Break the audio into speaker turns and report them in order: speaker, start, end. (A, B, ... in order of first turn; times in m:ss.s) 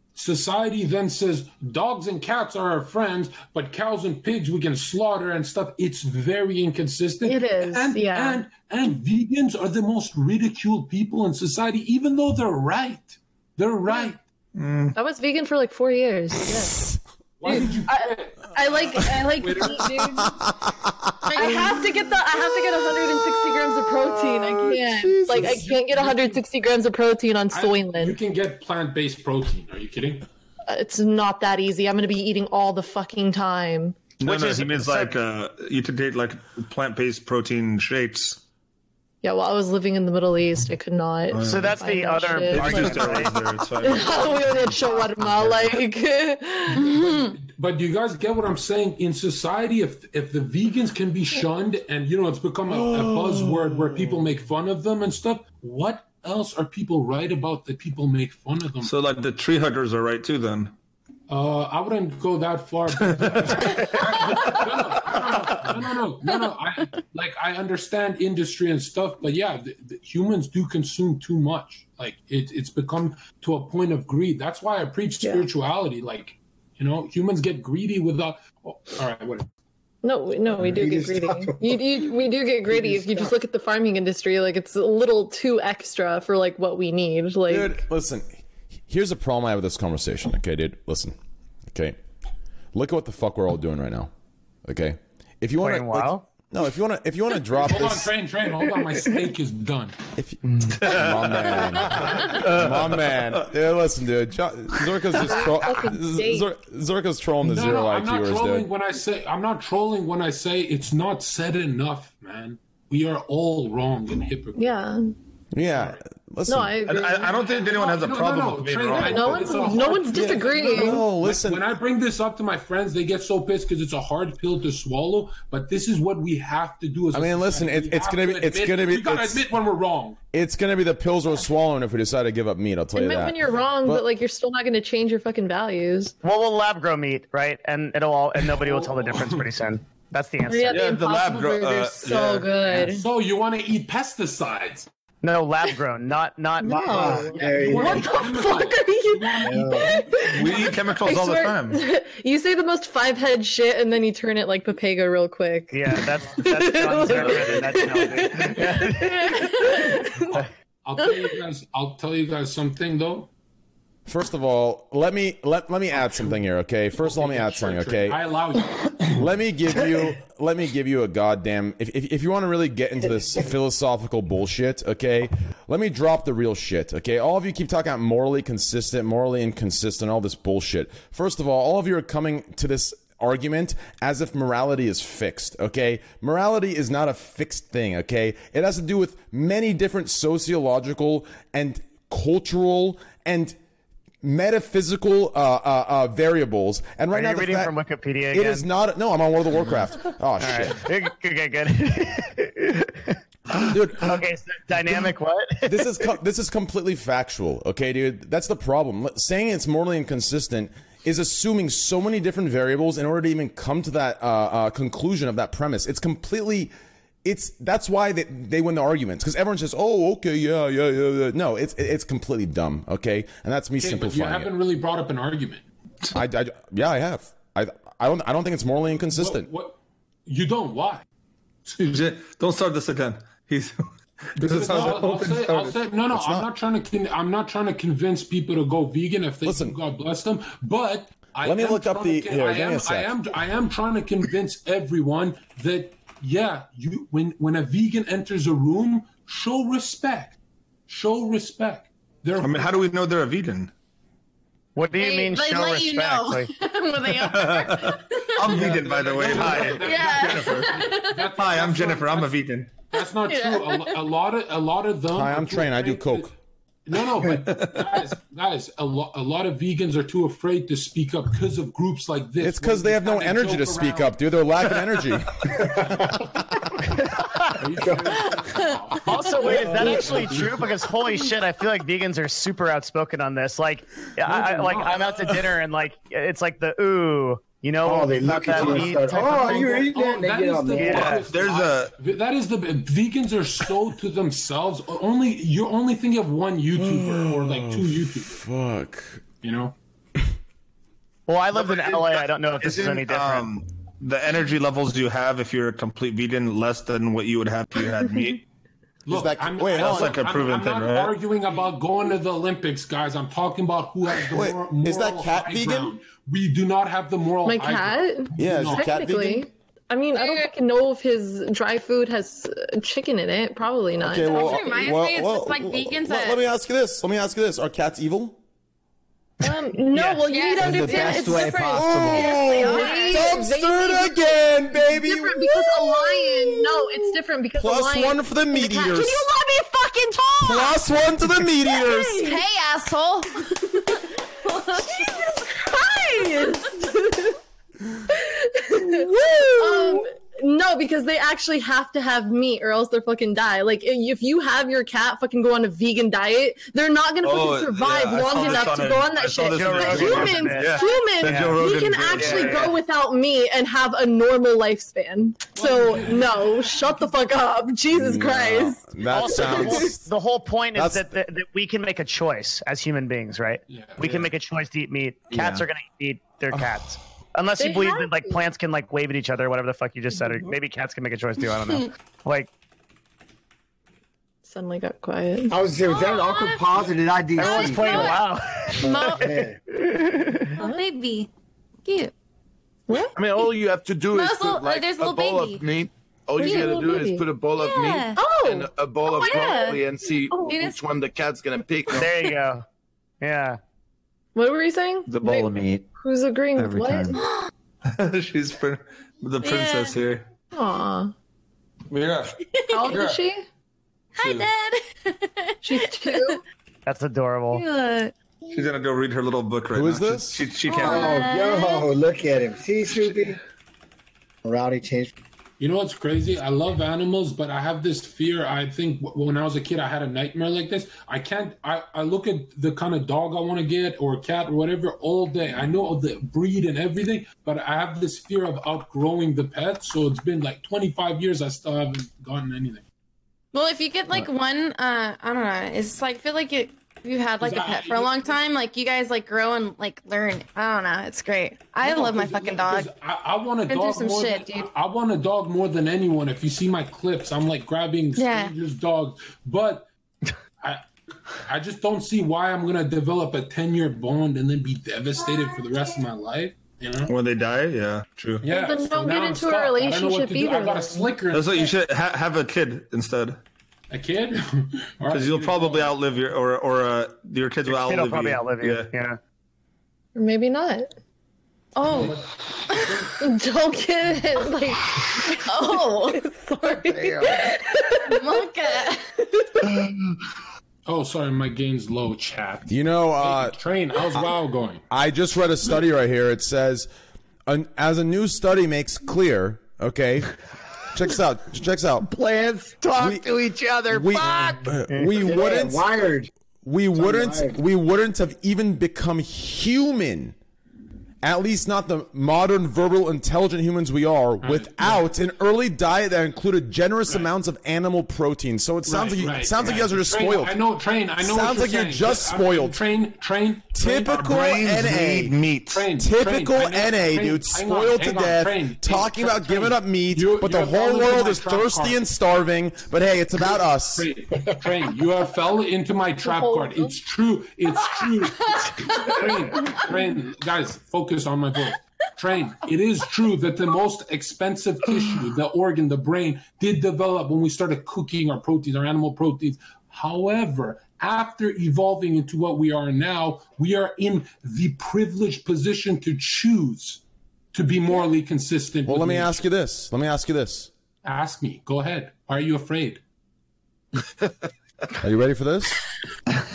0:00.1-0:14.2 A
0:07.2-0:08.4 B
0:14.6-0:15.0 C
0:14.9-0:16.9 B
0:17.4-0:18.5 A
0:17.4-0:20.4 B
0:19.4-0:20.1 A
0:20.1-0:21.3 D
0:21.3-0:21.9 E
0:21.3-0:28.2 B
0:23.8-0:25.6 D
0:25.3-0:26.4 A
0:27.5-0:30.2 A
0:30.7-0:34.0 B
0:34.2-0:38.4 C
0:34.2-0:35.1 F
0:39.2-0:47.3 B
0:41.3-0:41.8 C
0:41.4-0:43.4 F
0:42.4-0:45.7 C
0:46.9-0:47.2 E
0:47.4-0:58.9 A
0:52.7-0:54.2 D
0:58.8-1:00.7 C
1:01.3-1:19.5 A
1:03.0-1:03.9 C
1:20.0-1:27.8 B
1:20.6-1:21.8 G
1:22.7-1:23.3 G
1:27.5-1:31.2 D
1:31.7-1:32.0 D
1:32.7-1:34.1 D
1:34.6-1:38.1 D
1:35.6-1:36.2 F
1:37.6-1:40.0 A
1:40.2-1:48.7 D
1:40.8-1:41.8 C
1:42.4-1:42.9 C
1:45.1-1:46.5 B
1:47.4-1:54.7 A
1:54.6-1:55.1 B
1:55.5-1:56.9 D
1:55.7-1:56.0 A
1:56.5-1:57.3 B
1:56.8-2:00.0 C
1:57.4-2:10.2 A
1:58.9-2:01.0 B
2:00.1-2:01.6 D
2:07.1-2:09.4 D
2:10.3-2:14.1 D
2:13.0-2:16.1 B
2:16.2-2:20.9 F
2:18.5-2:19.4 A
2:20.5-2:23.0 B
2:20.7-2:22.6 C
2:22.6-2:24.9 A
2:25.2-2:27.3 F
2:26.6-2:40.4 B
2:26.6-2:28.3 G
2:27.4-2:30.8 A
2:29.4-2:30.0 G
2:30.3-2:31.8 C
2:35.7-2:39.4 F
2:40.3-2:43.3 A
2:44.1-2:48.2 D
2:45.9-2:46.4 A
2:47.0-2:49.2 A
2:49.1-3:13.6 D
3:14.2-3:17.7 D
3:17.1-3:18.7 F
3:18.3-3:20.8 D
3:20.4-3:23.1 F
3:23.6-3:24.2 D
3:23.9-3:25.9 F
3:25.6-3:36.7 D
3:37.2-3:44.5 D
3:43.8-3:45.6 A
3:46.1-3:49.5 D
3:49.1-3:51.0 A
3:51.7-3:55.8 C
3:54.4-4:10.4 A
3:56.1-3:56.5 D
3:59.4-3:59.8 D
4:01.4-4:03.1 D
4:10.9-4:12.7 A
4:12.4-4:13.7 C
4:14.8-4:16.5 F
4:15.0-4:18.7 E
4:17.2-4:20.8 C
4:18.4-4:26.3 A
4:19.5-4:21.2 E
4:21.3-4:22.7 C
4:25.1-4:26.3 D
4:26.8-4:34.2 A
4:27.2-4:27.9 C
4:32.4-4:35.8 D
4:35.6-4:36.1 A
4:37.2-4:37.5 F
4:37.5-4:40.8 A
4:38.4-4:38.6 E
4:39.0-4:49.9 F
4:44.2-4:45.3 A
4:47.8-4:51.2 G
4:49.5-4:58.4 A
4:50.8-4:51.2 F
4:51.0-4:51.9 C
4:56.8-4:59.2 D
4:59.4-4:59.7 A
5:01.3-5:03.5 F
5:01.5-5:08.4 C
5:09.0-5:18.9 A
5:09.1-5:10.2 D
5:09.7-5:11.1 C
5:14.3-5:15.9 D
5:17.4-5:24.9 B
5:18.4-5:19.5 D
5:20.1-5:20.5 E
5:24.0-5:28.4 D
5:24.2-5:26.4 E
5:29.4-5:39.1 B
5:29.9-5:30.2 F
5:30.2-5:33.4 E
5:30.6-5:32.4 H
5:31.7-5:35.6 D
5:35.6-5:37.0 E
5:37.5-5:39.2 D
5:38.6-5:40.8 E
5:40.4-5:42.3 D
5:41.6-5:43.5 E
5:44.5-5:45.5 E
5:44.7-5:47.4 B
5:48.1-6:09.9 B
5:49.6-5:50.0 E
5:57.2-6:02.8 C
5:59.4-6:01.6 F
6:02.1-6:02.8 F
6:05.5-6:06.7 A
6:07.9-6:10.1 D
6:09.1-6:22.5 F
6:10.7-6:11.2 D
6:13.7-6:14.3 A
6:15.3-6:15.6 H
6:17.6-6:18.4 B
6:24.4-6:25.5 B
6:25.5-6:28.1 G
6:25.8-6:29.4 E
6:27.4-6:29.1 F
6:28.8-6:29.6 G
6:29.9-6:30.5 F
6:30.6-6:31.3 E
6:31.8-6:32.1 E
6:32.9-6:33.1 B
6:33.1-6:42.1 I
6:34.1-6:35.6 E
6:36.4-6:37.2 B
6:36.4-6:36.9 E
6:37.5-6:38.2 E
6:38.2-6:39.7 B
6:39.0-6:39.8 E
6:40.3-6:40.6 B
6:40.4-6:40.8 E
6:41.9-6:42.6 F
6:43.2-6:43.6 F
6:44.3-6:47.2 B
6:45.1-6:45.8 H
6:46.6-6:47.2 H
6:47.2-6:47.5 E
6:47.9-6:50.2 C
6:49.4-6:50.0 E
6:50.5-6:51.1 B
6:51.9-6:52.4 C
6:52.5-6:53.0 E
6:52.7-6:53.4 B
6:52.9-6:53.2 C
6:54.1-6:56.4 E
6:55.6-6:56.4 B
6:56.8-6:57.6 F
6:57.5-6:58.1 E
6:58.5-7:01.2 C
6:59.7-7:00.5 D
7:00.6-7:01.9 E
7:00.8-7:03.4 G
7:04.4-7:05.1 G
7:05.6-7:22.8 A
7:23.5-7:32.9 E
7:27.4-7:28.4 A
7:31.8-7:39.9 A
7:33.7-7:34.7 E
7:38.2-7:38.5 E
7:41.4-7:47.1 A
7:47.1-7:48.5 C
7:48.4-7:51.7 A
7:48.5-7:51.2 B
7:51.3-7:53.4 C
7:53.9-7:56.0 A
7:55.1-7:58.9 C
7:57.7-7:59.2 F
8:00.1-8:00.9 B
8:01.8-8:02.1 E
8:01.8-8:02.1 B
8:01.9-8:03.1 A
8:02.7-8:03.0 E
8:03.2-8:08.4 B
8:05.3-8:06.2 E
8:08.0-8:09.1 E
8:10.8-8:14.8 A
8:12.7-8:13.6 D
8:14.9-8:16.9 D
8:17.5-8:22.1 D
8:22.0-8:24.7 H
8:23.0-8:23.3 D
8:23.9-8:26.1 D
8:24.2-8:24.7 A
8:24.9-8:25.1 F
8:25.2-8:26.3 G
8:26.6-8:30.3 D
8:26.9-8:27.6 G
8:31.2-8:40.6 D
8:34.4-8:35.0 A
8:38.8-8:44.4 A
8:41.2-8:42.8 D
8:43.7-8:45.4 D
8:44.1-8:45.9 C
8:45.7-8:52.0 A
8:46.0-8:54.1 D
8:53.9-9:17.0 A
8:56.2-8:56.9 B
8:59.1-8:59.8 E
9:17.5-9:19.4 A
9:18.8-9:20.7 D
9:21.0-9:23.0 A
9:25.0-9:25.8 D